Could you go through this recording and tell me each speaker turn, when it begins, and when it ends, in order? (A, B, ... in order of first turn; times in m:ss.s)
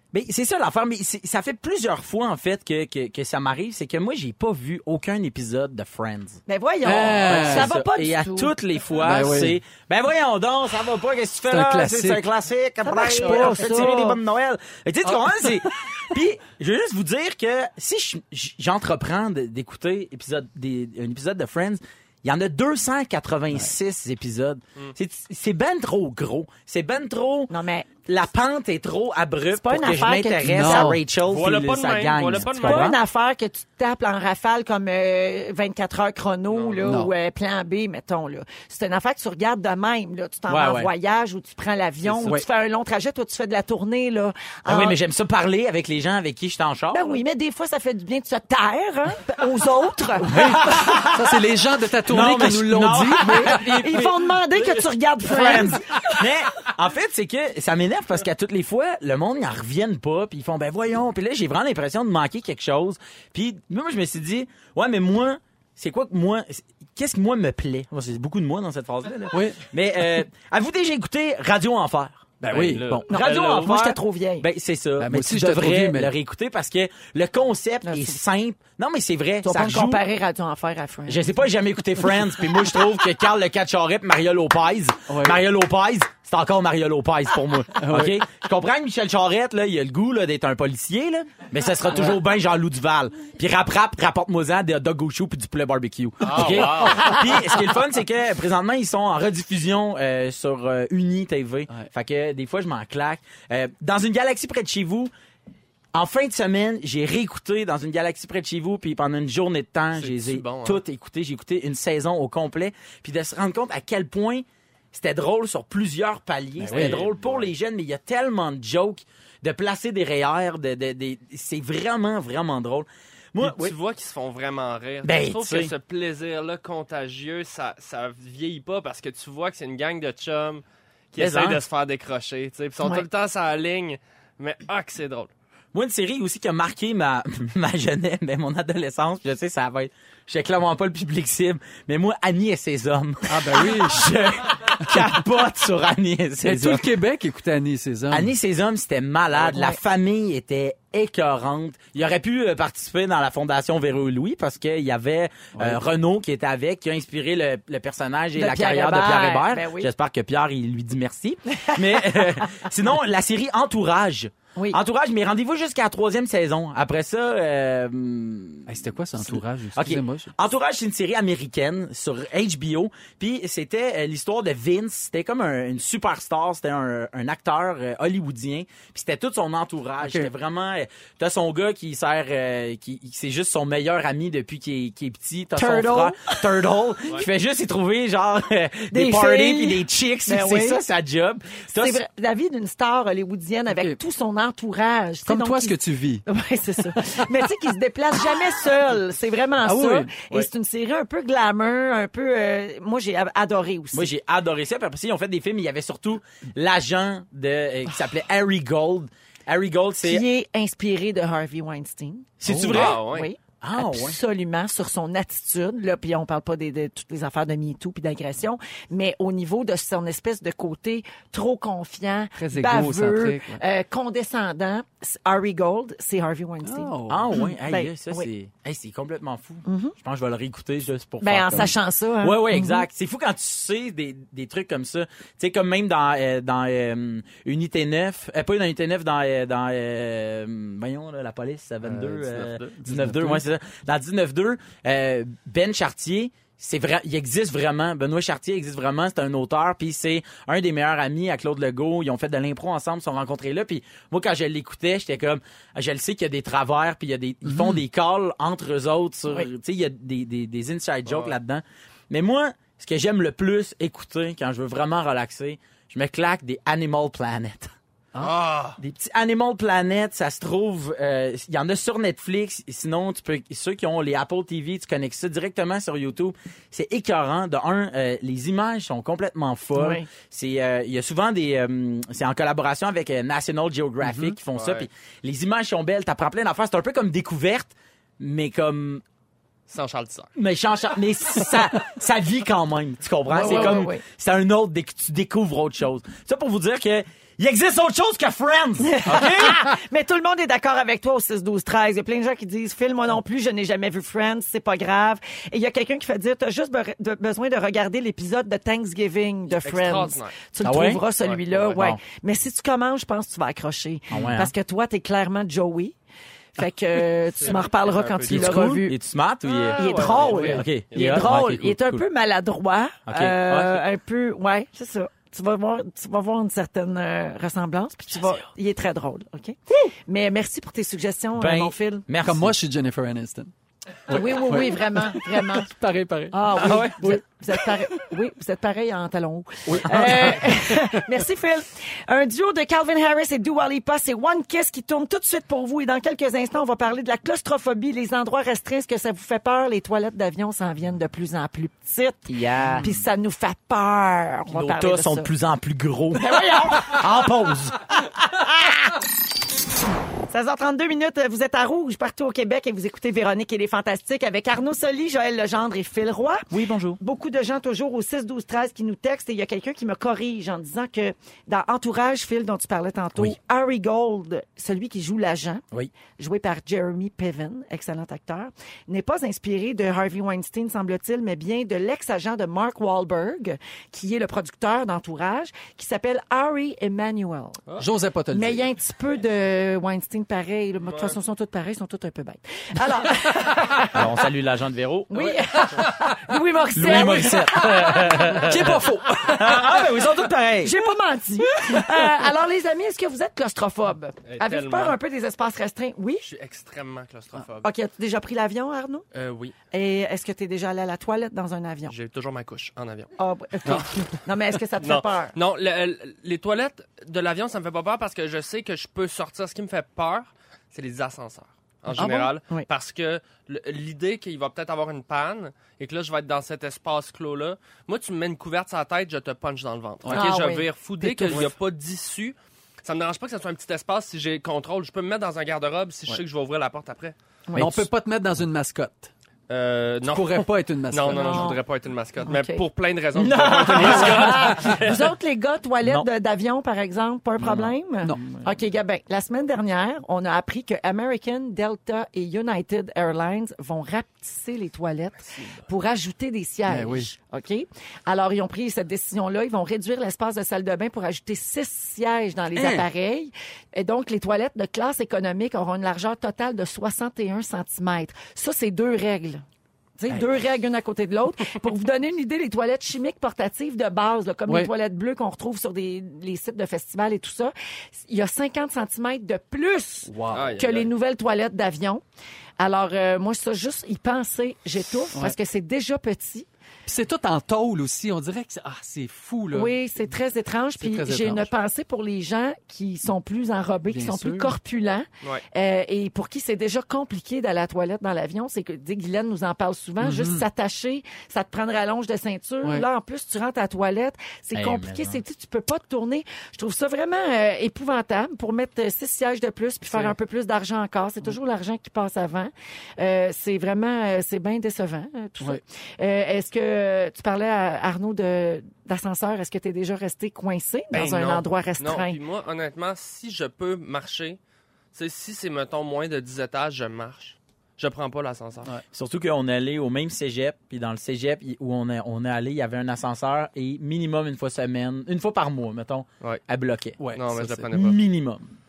0:00.1-0:27.5 A
0:06.5-0:08.5 B
0:06.8-0:07.7 C
0:09.0-0:09.6 C
0:11.5-0:12.2 C
0:12.8-0:14.2 B
0:13.2-0:13.9 C
0:15.0-0:15.8 C
0:27.5-0:27.9 B
0:28.1-0:33.0 A
0:29.5-0:31.0 B
0:30.4-0:31.0 C
0:31.2-0:33.0 D
0:32.6-0:45.0 B
0:36.5-0:36.8 D
0:36.8-0:37.1 C
0:40.5-0:40.9 A
0:42.0-0:42.4 D
0:44.7-0:47.2 A
0:46.9-0:50.3 B
0:50.2-0:53.9 C
0:50.3-0:51.4 A
0:52.1-1:20.0 A
0:53.2-0:55.8 B
1:09.3-1:09.6 C
1:12.4-1:12.9 C
1:12.6-1:13.4 D
1:13.1-1:14.5 B
1:15.0-1:16.1 C
1:17.8-1:18.2 B
1:19.4-1:21.4 B
1:21.1-1:45.1 A
1:25.1-1:25.4 C
1:27.8-1:28.2 C
1:36.2-1:37.2 D
1:36.4-1:36.8 C
1:45.9-2:03.8 A
1:49.9-1:50.8 D
1:56.6-1:57.0 C
1:56.6-1:57.5 D
2:03.4-2:15.3 D
2:05.0-2:05.7 A
2:11.2-2:11.6 A
2:15.7-2:26.9 A
2:23.3-2:24.1 C
2:26.4-2:28.3 C
2:28.1-3:12.0 A
2:29.5-2:29.8 B
2:35.6-2:35.8 C
2:38.4-2:39.9 B
2:41.6-2:42.6 B
2:48.7-2:50.3 C
3:00.0-3:00.3 C
3:05.6-3:06.4 B
3:08.9-3:10.8 B
3:11.8-3:24.1 B
3:13.7-3:14.0 C
3:15.3-3:16.2 C
3:17.0-3:17.2 C
3:19.6-3:20.1 C
3:23.9-3:30.2 A
3:30.0-3:48.3 B
3:32.4-3:33.0 A
3:32.5-3:32.8 C
3:32.7-3:33.3 D
3:33.6-3:34.2 A
3:42.4-3:43.6 C
3:46.6-3:47.4 C
3:47.1-4:27.7 A
3:49.7-3:49.9 B
3:51.2-3:52.8 B
4:01.8-4:02.8 D
4:02.8-4:03.4 C
4:17.4-4:17.8 C
4:21.0-4:21.4 D
4:28.2-4:28.8 D
4:28.8-4:49.0 A
4:39.8-4:40.1 B
4:44.0-4:44.4 C
4:44.5-4:44.9 D
4:49.7-4:50.3 D
4:50.4-4:59.6 A
4:53.3-4:54.0 B
4:53.4-4:53.8 C
4:58.8-5:16.0 B
5:09.6-5:10.4 D
5:10.6-5:11.0 A
5:11.2-5:11.8 D
5:11.7-5:12.0 A
5:14.1-5:14.5 A
5:16.6-5:19.0 B
5:17.4-5:18.6 D
5:18.3-5:22.0 A
5:19.5-5:21.3 D
5:19.8-5:32.1 B
5:20.2-5:20.6 C
5:23.1-5:23.8 A
5:31.4-5:32.6 A
5:32.2-5:33.5 C
5:34.1-5:35.7 B
5:34.1-5:37.7 C
5:36.3-5:55.3 B
5:36.6-5:36.9 D
5:39.7-5:41.0 C
5:40.0-5:40.3 A
5:52.3-5:52.9 A
5:54.5-5:58.7 A
5:56.2-5:57.0 B
6:00.3-6:06.5 B
6:06.5-6:07.0 A
6:07.0-6:15.6 B
6:16.2-6:27.6 B
6:27.8-6:28.7 C
6:28.3-6:34.1 B
6:30.9-6:31.2 D
6:33.8-6:35.3 A
6:35.1-6:38.4 B
6:36.8-6:40.8 A
6:36.9-6:37.4 C
6:38.1-6:39.6 C
6:40.6-6:46.3 B
6:44.3-6:45.0 D
6:46.2-6:47.7 D
6:47.6-6:49.0 B
6:49.1-6:49.6 D
6:49.7-6:51.9 B
6:51.9-6:53.1 D
6:53.2-6:55.4 B
6:54.8-7:17.2 D
7:02.0-7:02.7 B
7:10.1-7:11.4 B
7:17.5-7:17.9 B
7:17.6-7:19.1 C
7:19.5-7:25.1 D
7:20.0-7:21.6 C
7:21.1-7:21.6 B
7:22.2-7:22.6 B
7:23.2-7:24.8 A
7:23.7-7:49.4 B
7:25.8-7:26.1 A
7:27.4-7:27.7 A
7:36.7-7:37.1 C
7:42.6-7:42.9 C
7:50.0-8:02.0 B
8:00.1-8:00.6 C
8:00.3-8:00.9 D
8:02.6-8:06.5 B
8:06.9-8:09.8 C
8:09.5-8:42.2 B
8:10.8-8:11.5 C
8:13.9-8:14.5 C
8:20.0-8:20.5 C
8:24.5-8:25.2 A
8:29.9-8:30.2 C
8:40.9-8:44.4 D
8:44.9-8:48.7 D
8:48.9-8:57.0 A
8:57.0-8:57.7 C
8:57.1-8:58.0 D
8:57.7-8:58.5 A